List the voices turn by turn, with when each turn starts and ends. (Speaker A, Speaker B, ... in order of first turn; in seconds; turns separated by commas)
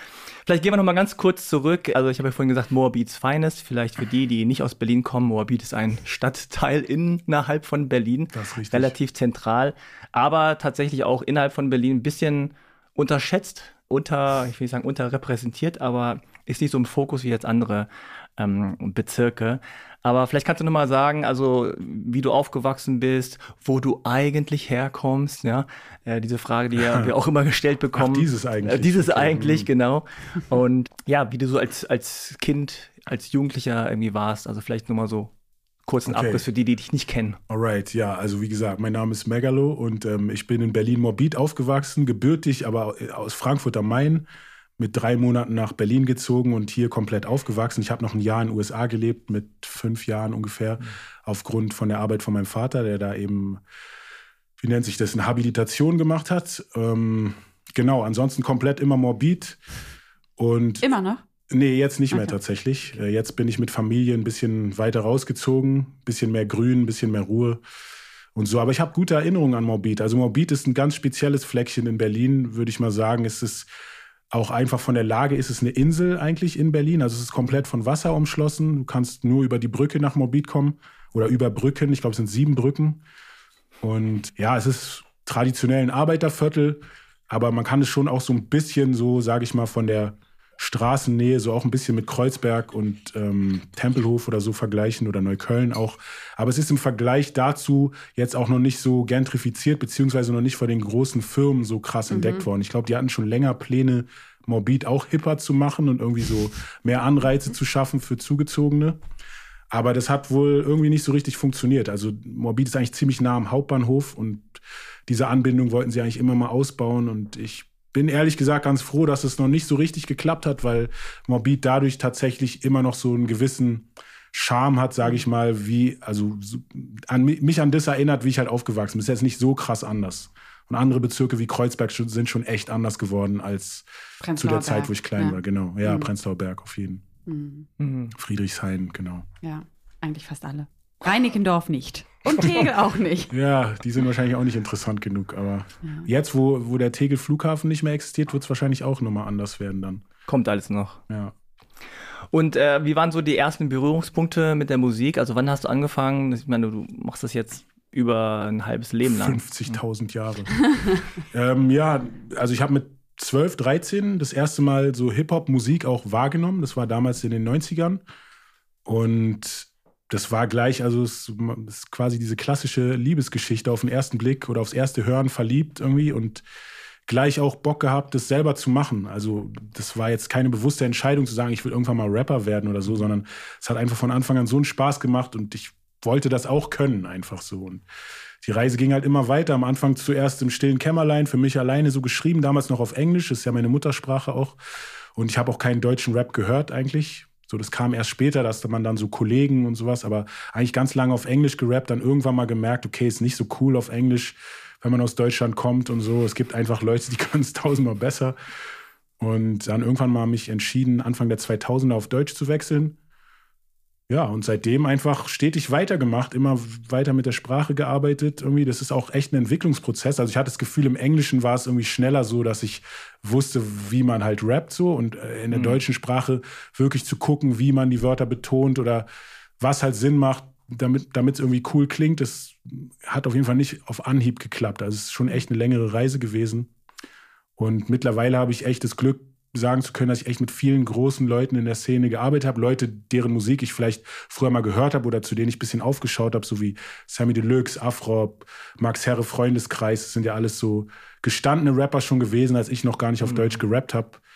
Speaker A: 0.5-35.3, Speaker B: 8.3-8.9, Speaker B: 26.8-27.1, Speaker B: 27.9-29.7, Speaker A: 35.9-37.4, Speaker B: 36.0-36.4, Speaker B: 37.5-44.3, Speaker B: 44.8-53.6, Speaker B: 54.6-59.6, Speaker B: 60.4-60.9, Speaker C: 60.8-61.2, Speaker B: 61.5-67.6, Speaker B: 68.3-73.7, Speaker B: 74.3-83.0, Speaker B: 83.8-109.0, Speaker C: 102.1-102.5, Speaker B: 109.7-137.0, Speaker C: 134.2-136.1, Speaker C: 137.3-137.7, Speaker A: 137.8-138.1, Speaker B: 138.1-139.3, Speaker C: 139.4-143.3, Speaker B: 142.4-142.7, Speaker B: 143.3-150.1, Speaker A: 150.3-151.0, Speaker B: 151.1-151.3, Speaker A: 152.3-159.8, Speaker B: 159.1-168.0, Speaker B: 168.8-176.4, Speaker B: 177.1-187.8, Speaker B: 188.4-194.6, Speaker B: 195.2-208.4, Speaker B: 209.2-213.0, Speaker B: 214.1-229.1, Speaker A: 225.5-225.8, Speaker B: 229.6-236.7, Speaker B: 237.6-254.2, Speaker A: 253.2-253.6